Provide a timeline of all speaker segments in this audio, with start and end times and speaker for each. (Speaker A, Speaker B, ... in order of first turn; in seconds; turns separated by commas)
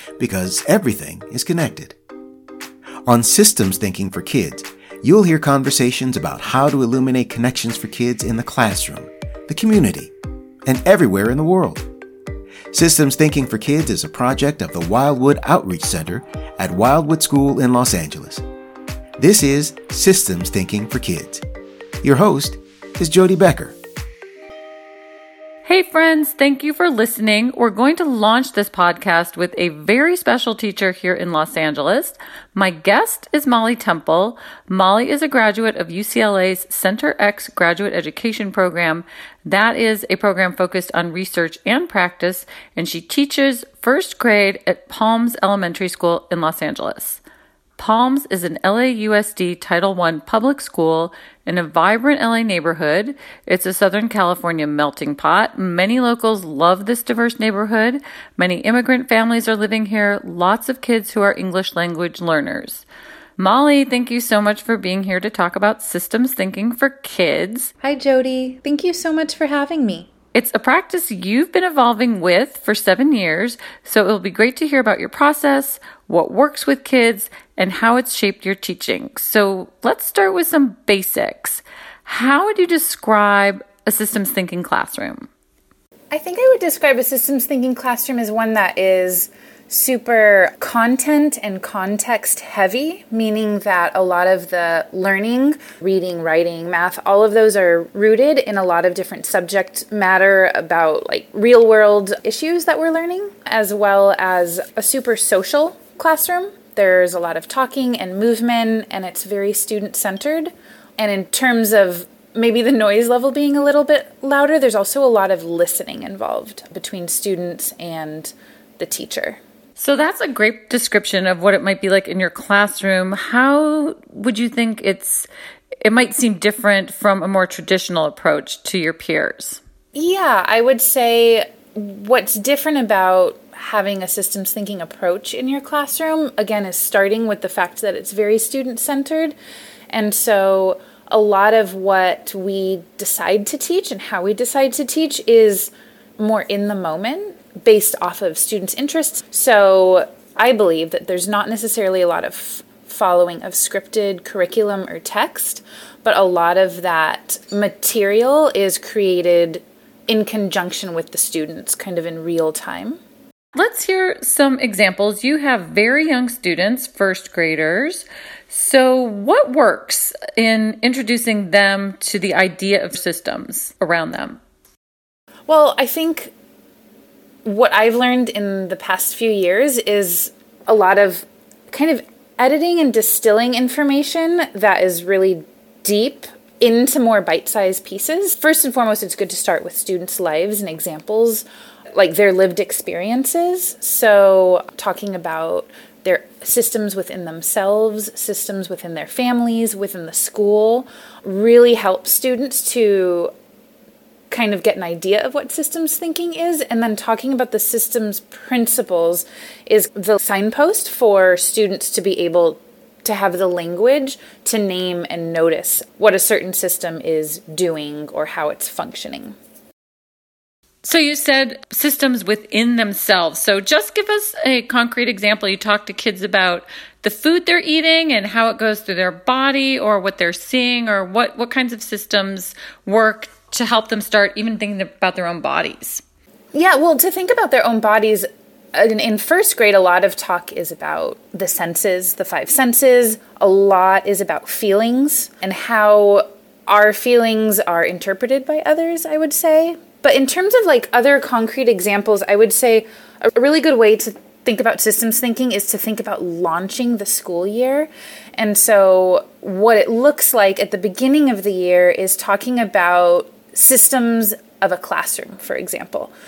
Speaker A: 0.2-1.9, Speaker A: 3.0-10.1, Speaker A: 10.6-11.8, Speaker A: 12.7-18.4, Speaker A: 19.2-21.4, Speaker A: 22.0-23.8, Speaker B: 25.6-47.2, Speaker B: 47.8-62.9, Speaker B: 63.4-67.7, Speaker C: 67.8-70.1, Speaker B: 70.3-85.3, Speaker C: 86.1-119.4, Speaker B: 119.8-125.3, Speaker B: 125.8-129.6, Speaker C: 129.9-139.4, Speaker C: 139.9-163.0, Speaker B: 163.5-174.4, Speaker C: 175.5-176.3, Speaker C: 177.4-203.3, Speaker C: 204.3-219.3, Speaker B: 220.8-236.0, Speaker C: 236.5-266.1